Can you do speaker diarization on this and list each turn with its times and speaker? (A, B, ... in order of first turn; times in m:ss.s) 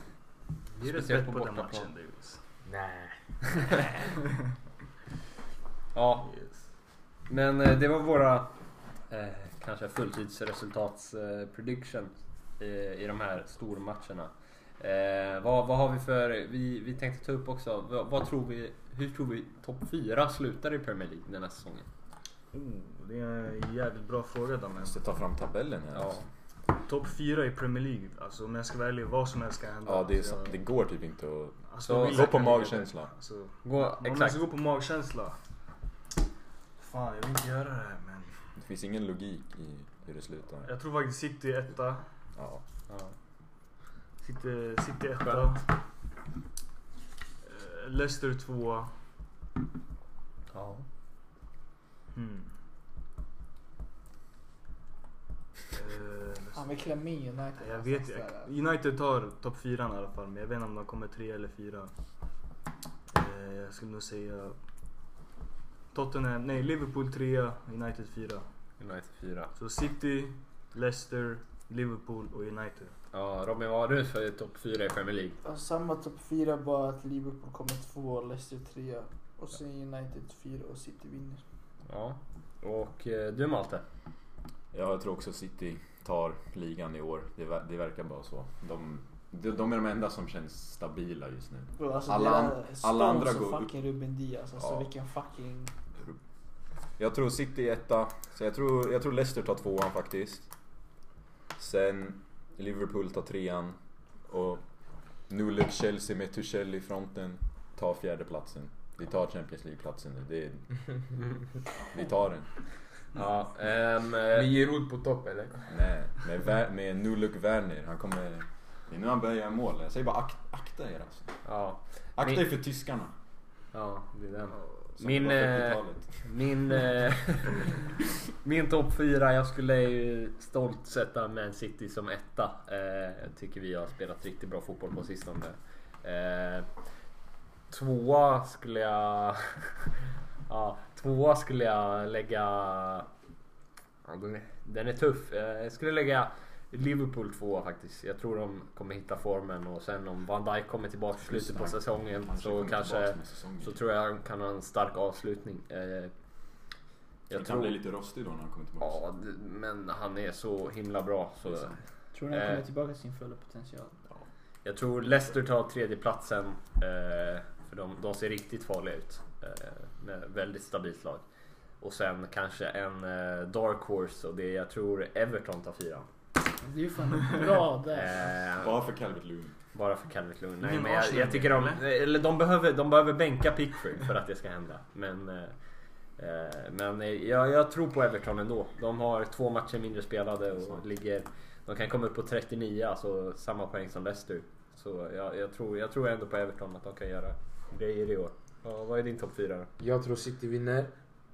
0:00.8-0:02.4 A
0:00.8-0:01.9 B
0:02.6-0:03.2 C
0:05.9-0:06.3 B
0:06.2-0:06.6 A
0:07.3-0:08.5 B
0:09.1-0:21.9 B
0:22.5-0:25.0 A
0:24.8-0:26.2 D
0:25.9-0:26.2 B
0:26.8-0:30.6 A
0:29.8-0:33.1 D
0:31.7-0:35.4 A
0:33.6-0:34.4 B
0:36.8-0:38.5 A
0:38.6-0:40.7 D
0:40.6-0:42.2 A
0:42.3-0:42.6 D
0:42.9-0:43.1 B
0:44.2-0:45.7 A
0:45.2-0:45.6 B
0:47.4-0:48.9 A
0:50.5-0:50.8 B
0:52.1-0:52.5 A
0:55.7-0:56.7 A
0:56.5-0:58.5 E
0:57.6-1:01.9 A
1:03.1-1:04.6 A
1:05.9-1:08.4 A
1:08.8-1:09.5 B
1:09.5-1:13.0 A
1:13.1-1:15.4 B
1:15.4-1:21.4 E
1:21.9-1:23.8 B
1:24.7-1:33.7 D
1:31.8-1:35.7 E
1:34.6-1:34.9 D
1:37.0-1:40.5 D
1:41.6-1:44.6 D
1:45.3-1:51.0 D
1:51.9-1:52.5 D
1:53.1-1:54.5 B
1:54.3-1:55.7 C
1:55.7-2:01.4 D
2:01.4-2:02.4 B
2:02.2-2:03.1 D
2:03.7-2:16.7 B
2:04.6-2:04.8 A
2:05.0-2:06.2 D
2:17.7-2:19.9 B
2:20.5-2:23.1 B
2:24.0-2:36.1 B
2:31.2-2:33.8 D
2:37.3-2:37.8 B
2:37.3-2:39.0 D
2:38.8-2:42.6 B
2:41.4-2:41.8 D
2:42.1-2:43.9 E
2:44.6-2:51.2 B
2:51.8-2:56.1 B
2:56.6-2:58.2 E
2:57.9-2:58.8 B
2:58.6-2:59.5 D
2:59.7-3:05.6 B
3:00.6-3:01.8 A
3:06.2-3:19.7 B
3:10.6-3:10.8 D
3:19.8-3:20.9 C